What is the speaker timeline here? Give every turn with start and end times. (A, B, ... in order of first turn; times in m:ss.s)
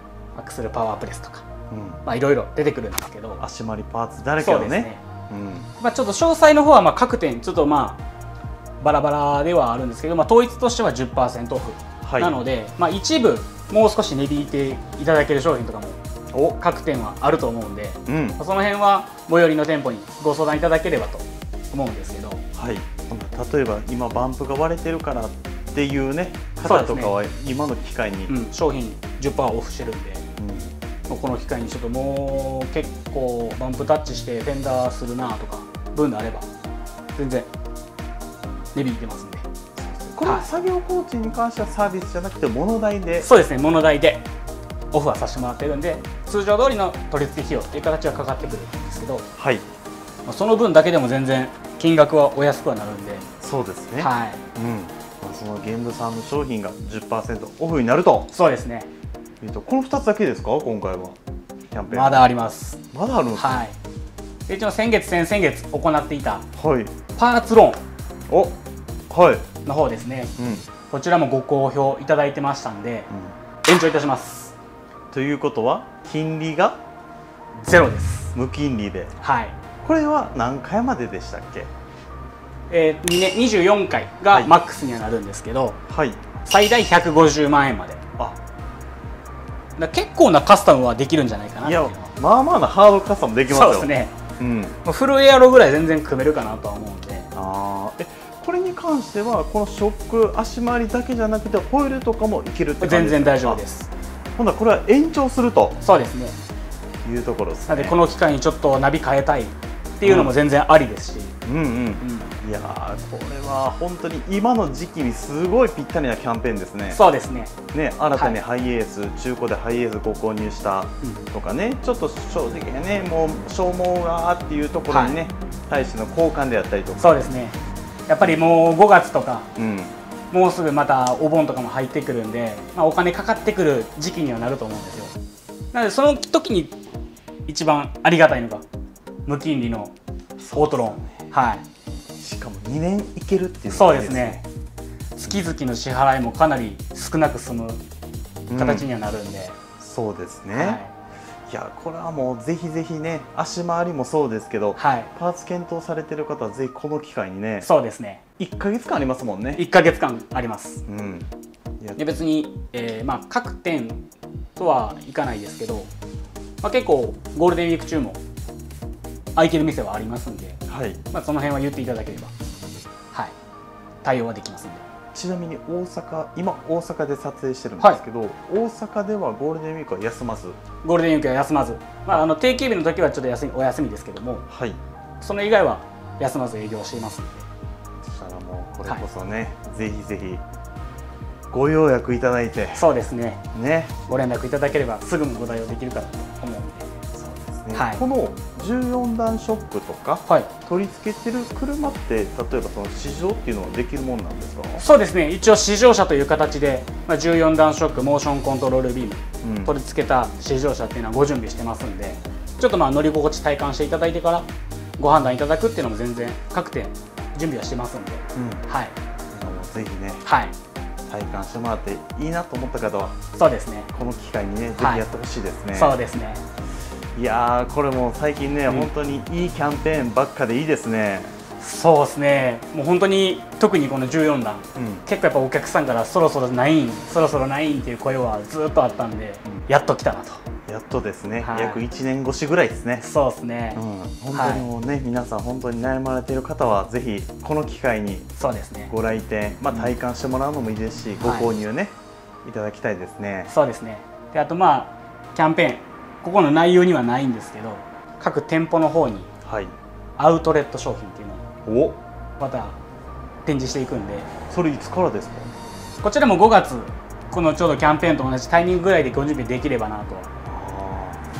0:00.4-0:01.4 A
0:01.7-0:02.0 B
0:02.0-0:03.4 A
0:03.4-0:05.7 B
0:04.4-0:05.0 A
0:05.8-0:08.0 A
0:08.8-0:16.0 A
0:12.0-0:12.4 B
0:16.3-0:16.6 B
0:16.6-0:22.4 A
0:18.1-0:18.4 B
0:22.6-0:28.3 B
0:26.6-0:27.1 A
0:28.3-0:30.2 A
0:30.4-0:30.7 B
0:31.1-0:36.5 A
0:37.2-0:37.5 A
0:38.8-0:39.4 A
0:39.8-0:43.3 B
0:43.2-0:44.3 A
0:44.9-0:49.3 A
0:49.4-0:49.6 B
0:50.3-0:53.3 A
0:53.4-0:58.3 B
0:54.0-0:54.4 A
0:58.3-0:58.9 A
0:59.4-1:01.2 B
1:01.7-1:02.3 B
1:01.9-1:02.8 A
1:02.9-1:03.6 B
1:03.4-1:03.8 A
1:04.5-1:06.5 A
1:06.6-1:06.9 B
1:07.2-1:07.8 A
1:08.3-1:08.6 B
1:09.1-1:09.5 B
1:09.6-1:10.3 A
1:10.4-1:10.7 B
1:10.9-1:13.1 A
1:13.1-1:13.4 B
1:13.6-1:14.5 A
1:15.1-1:16.8 B
1:17.6-1:18.3 A
1:18.3-1:19.2 B
1:19.2-1:19.6 A
1:19.8-1:21.7 B
1:22.7-1:25.8 A
1:25.9-1:26.3 B
1:26.4-1:28.0 A
1:29.8-1:32.1 A
1:31.6-1:34.8 B
1:33.5-1:34.1 A
1:34.8-1:37.3 A
1:37.3-1:43.6 B
1:42.8-1:43.9 A
1:44.4-1:45.8 B
1:45.8-1:46.4 A
1:47.0-1:48.0 B
1:47.7-1:51.4 A
1:50.0-1:50.4 B
1:51.4-1:57.0 B
1:52.0-1:52.3 A
1:56.9-1:57.5 A
1:57.7-2:07.2 B
2:04.9-2:05.2 A
2:07.0-2:09.5 A
2:09.6-2:09.9 B
2:10.3-2:15.2 A
2:15.7-2:16.8 A
2:17.5-2:18.6 A
2:19.3-2:19.9 A
2:20.4-2:21.2 B
2:20.5-2:21.6 A
2:22.2-2:24.4 B
2:23.7-2:24.4 A
2:25.2-2:27.8 A
2:28.5-2:28.9 B
2:28.6-2:29.6 A
2:29.8-2:30.8 B
2:30.5-2:30.9 A
2:31.5-2:37.7 B
2:34.8-2:35.1 A
2:37.6-2:38.2 A
2:38.4-2:39.6 B
2:39.6-2:40.8 A
2:40.9-2:41.3 B
2:42.0-2:44.0 A
2:44.6-2:45.9 A
2:46.6-2:48.2 A
2:49.4-2:50.6 A
2:50.7-2:51.0 B
2:51.1-2:52.3 A
2:54.0-2:54.8 A
2:55.1-3:00.6 B
3:00.8-3:04.5 A
3:04.5-3:04.8 B
3:05.2-3:07.5 A
3:08.0-3:10.4 B
3:11.5-3:12.8 B
3:12.8-3:13.4 A
3:13.5-3:13.9 B
3:14.1-3:16.9 A
3:17.2-3:24.8 B
3:17.7-3:18.0 A
3:24.8-3:34.5 A
3:29.4-3:29.7 B
3:35.0-3:38.9 A
3:38.4-3:38.6 B
3:39.3-3:40.2 B
3:40.2-3:40.5 A
3:41.1-3:43.2 B
3:43.4-3:43.9 A
3:43.9-3:46.0 B
3:44.8-3:45.0 A
3:45.7-3:46.4 A
3:47.2-3:51.4 B
3:51.6-4:00.4 A
3:54.8-3:55.0 B
4:00.7-4:03.1 B
4:01.4-4:01.8 A
4:03.0-4:03.8 A
4:03.7-4:08.3 B
4:04.3-4:04.7 A
4:08.4-4:08.9 A
4:08.9-4:13.5 B
4:09.7-4:10.0 A
4:11.2-4:11.5 A
4:13.5-4:19.3 A
4:19.4-4:19.7 B
4:20.2-4:21.4 A
4:21.7-4:22.0 B
4:22.4-4:22.8 A
4:23.4-4:24.3 A
4:24.5-4:25.5 B
4:26.0-4:30.3 A
4:30.4-4:31.2 B